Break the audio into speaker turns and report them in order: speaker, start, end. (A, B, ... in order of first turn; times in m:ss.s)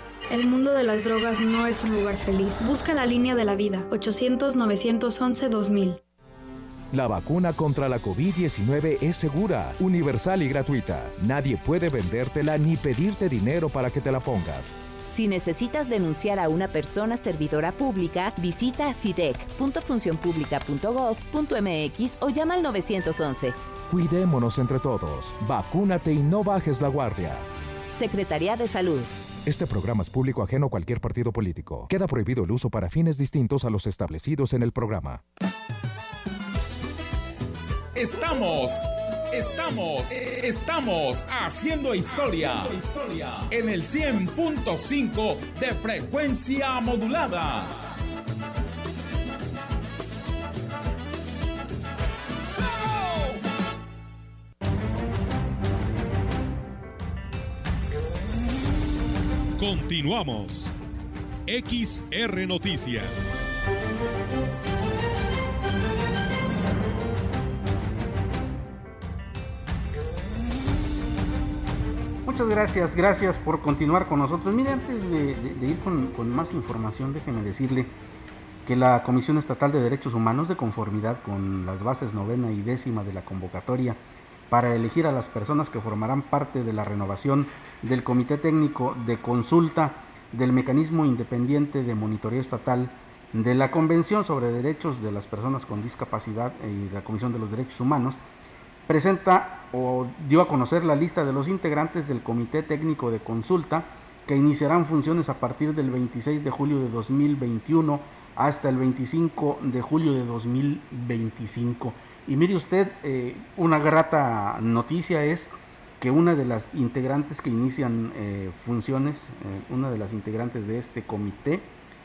0:00.3-0:06.0 A
0:06.9-0:14.8 B
0:15.1-0:23.6 C
0:23.9-0:27.4 B
0:28.0-0:29.1 C
0:29.4-0:35.2 B
0:37.9-0:38.8 D
0:39.3-0:47.7 D
0:59.6-1:00.8 E
1:01.5-1:03.5 E
1:12.2-1:17.9 F
1:18.6-1:38.2 F
1:38.9-2:01.7 F